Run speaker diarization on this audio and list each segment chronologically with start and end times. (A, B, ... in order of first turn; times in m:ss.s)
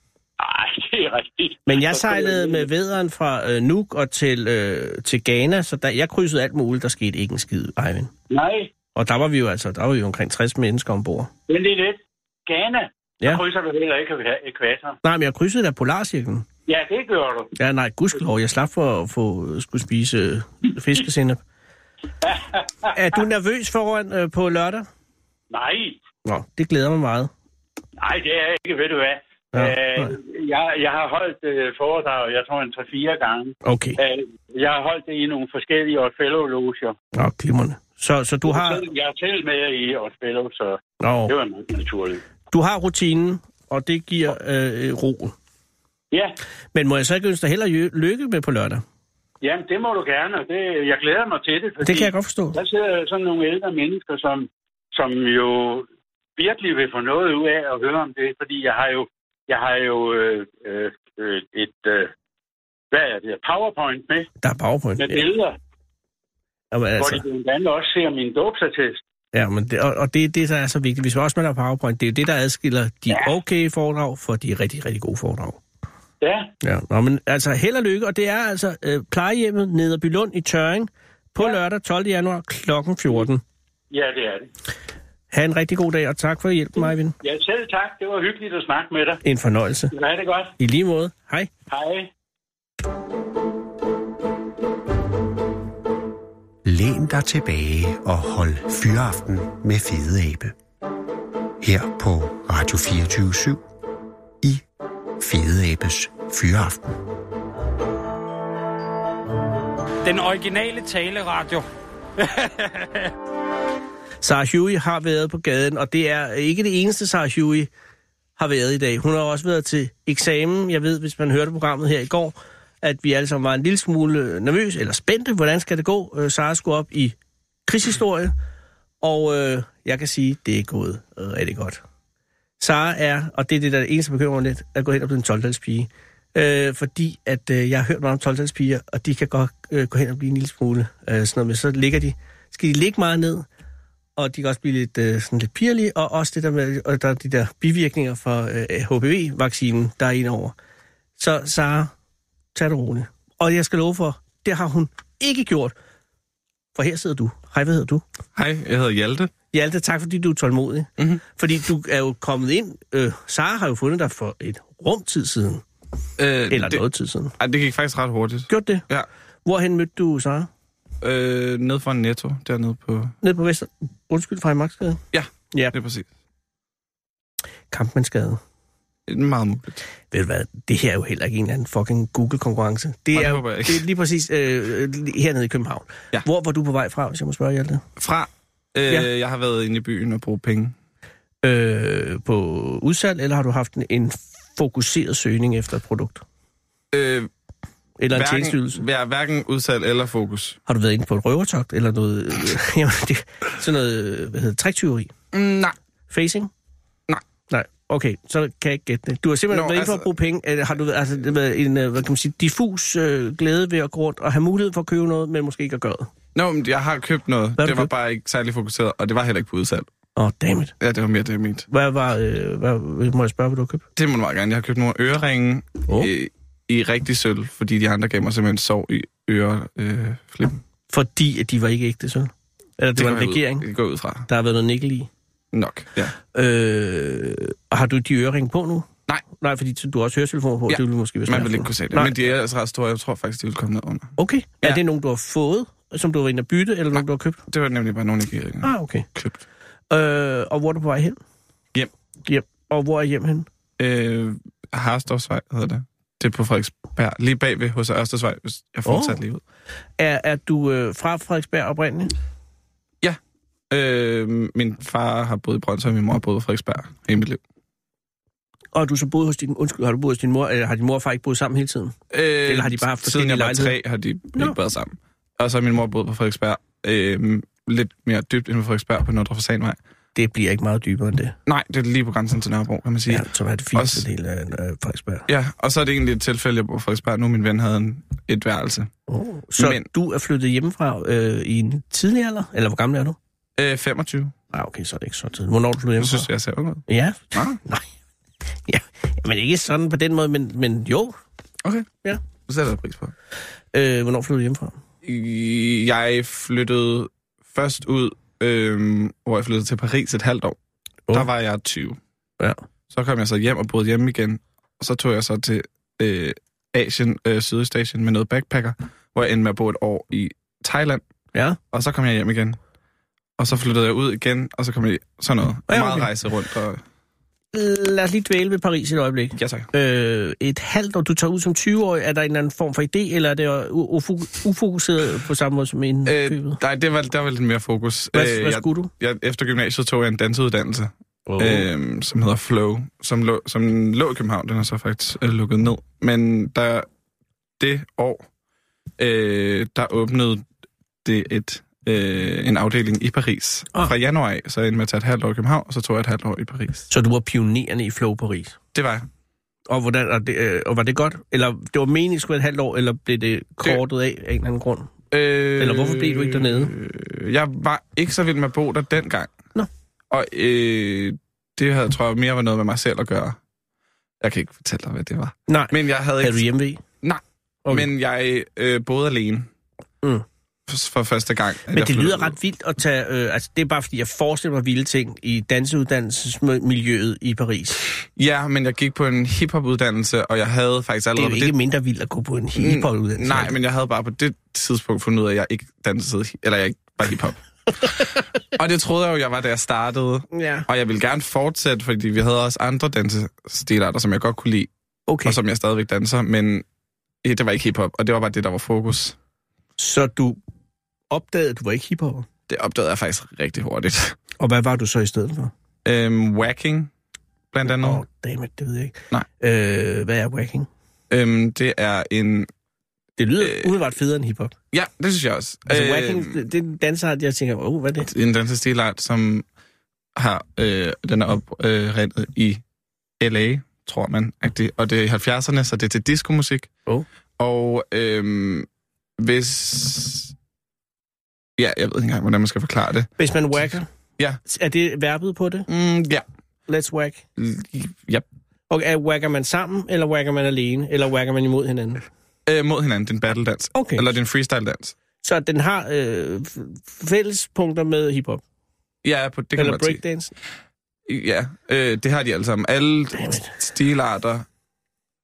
0:00.4-0:02.7 A
0:01.7-0:08.1 B
0:08.3-0:08.7 A
0:09.0-0:11.3 B
0:11.5-0:15.0 A
0:15.0-0:16.5 B
0:16.7-0:17.5 A
0:17.6-0:21.4 B
0:22.2-0:23.2 A
0:22.9-0:24.9 B
0:25.5-0:26.0 A
0:26.2-0:27.3 B
0:28.0-0:37.0 A
0:29.5-0:30.2 B
0:33.6-0:34.0 B
0:37.1-0:38.8 B
0:38.5-0:42.2 A
0:41.0-0:41.3 B
0:42.5-0:45.4 B
0:46.1-0:46.4 A
0:46.7-0:48.8 B
0:49.4-1:02.1 A
0:51.8-0:52.6 B
1:02.9-1:04.3 A
1:04.4-1:05.3 B
1:05.0-1:05.6 A
1:06.7-1:07.2 B
1:07.0-1:09.0 A
1:09.3-1:15.6 B
1:16.2-1:16.5 A
1:16.6-1:23.4 B
1:23.9-1:24.5 A
1:25.3-1:27.1 B
1:27.2-1:29.2 A
1:29.2-1:29.9 B
1:29.9-1:30.6 A
1:30.6-1:31.5 B
1:31.7-1:32.1 A
1:36.6-1:40.6 C
1:41.6-1:43.6 C
1:45.2-1:47.0 C
1:50.0-1:51.6 D
1:52.2-1:53.1 D
1:54.2-1:57.7 B
1:58.4-2:07.1 B
2:07.7-2:08.3 B
2:09.0-2:11.8 B
2:12.6-2:23.4 B
2:24.2-2:30.6 B
2:31.2-2:31.9 B
2:32.6-2:35.7 B
2:36.8-2:38.0 B
2:38.4-2:39.3 E
2:39.5-2:45.6 B
2:46.2-2:46.8 E
2:46.5-2:47.4 B
2:47.4-2:49.1 E
2:48.5-2:48.9 B
2:49.5-2:50.5 B
2:51.0-2:53.1 E
2:53.2-2:55.8 B
2:55.1-2:56.1 E
2:57.7-2:58.4 B
2:59.1-2:59.8 E
3:00.1-3:07.8 B
3:03.1-3:03.8 E
3:08.0-3:10.7 E
3:11.4-3:16.2 B
3:16.9-3:17.3 E
3:18.0-3:18.8 B
3:18.1-3:20.6 E
3:20.7-3:25.1 B
3:25.3-3:25.8 E
3:26.1-3:26.5 B
3:27.5-3:36.1 B
3:29.5-3:30.1 E
3:36.4-3:39.9 E
3:37.6-3:37.9 B
3:40.2-3:40.7 B
3:40.8-3:41.7 E
3:41.7-3:43.8 B
3:44.0-3:50.6 E
3:50.9-3:53.6 B
3:53.0-3:54.3 E
3:54.3-3:55.1 B
3:55.5-3:56.2 E
3:56.3-4:02.2 B
4:00.7-4:04.8 E
4:04.2-4:07.4 B
4:07.0-4:09.4 E
4:08.6-4:09.1 B
4:09.9-4:11.2 B
4:12.3-4:13.5 B
4:13.8-4:19.4 E
4:18.9-4:19.2 B
4:20.0-4:22.1 B
4:23.7-4:27.4 E
4:28.7-4:33.8 B
4:32.1-4:39.8 E
4:40.2-4:41.4 B
4:41.5-4:43.2 E
4:43.1-4:45.3 B
4:43.8-4:44.0 E
4:45.3-4:48.9 E
4:49.1-4:53.2 B
4:49.6-4:49.9 E
4:53.6-4:54.3 E
4:54.5-4:56.3 B
4:56.0-4:56.8 E
4:56.9-4:57.8 B
4:58.7-5:01.2 B
5:01.6-5:03.1 E
5:03.7-5:04.8 B
5:05.0-5:10.6 E
5:11.1-5:12.0 E
5:12.9-5:21.0 E
5:21.7-5:22.6 E
5:23.4-5:26.8 E
5:25.7-5:26.1 B
5:27.5-5:36.6 B
5:29.4-5:29.7 E
5:36.1-5:46.9 E
5:38.1-5:38.9 B
5:41.3-5:41.7 B
5:47.6-5:48.3 E
5:49.0-5:50.4 E
5:51.0-5:56.9 E
5:56.9-5:58.6 B
5:58.7-5:59.1 E
5:59.7-6:04.9 B
6:05.1-6:09.4 E
6:05.6-6:06.7 B
6:10.1-6:13.4 E
6:14.2-6:16.4 E
6:15.5-6:16.8 B
6:17.0-6:19.5 E
6:20.7-6:22.3 E
6:21.7-6:27.8 B
6:28.2-6:31.5 E
6:31.2-6:33.6 B
6:32.6-6:44.7 E
6:40.3-6:40.7 B
6:45.1-6:45.4 B
6:45.2-6:46.6 E
6:47.2-6:49.2 E
6:49.8-6:50.4 B
6:51.1-6:52.3 B
6:52.5-6:54.2 E
6:54.4-6:55.5 B
6:55.8-6:56.9 E
6:57.5-6:58.0 E
6:57.6-7:00.7 B
7:01.1-7:02.5 E
7:03.2-7:04.6 B
7:03.4-7:03.7 E
7:04.7-7:06.4 E
7:05.7-7:08.1 B
7:08.0-7:09.5 E
7:10.2-7:12.6 E
7:13.2-7:16.7 E
7:17.4-7:18.7 E
7:19.2-7:20.3 E
7:21.6-7:23.1 E
7:23.2-7:23.9 B
7:24.5-7:25.7 B
7:25.7-7:26.2 E
7:26.7-7:27.2 B
7:27.4-7:28.2 E
7:28.7-7:32.0 B
7:32.5-7:35.0 E
7:33.8-7:34.1 B
7:35.2-7:38.4 B
7:39.0-7:40.0 E
7:39.6-7:40.3 B
7:41.1-7:44.4 E
7:43.2-7:43.5 B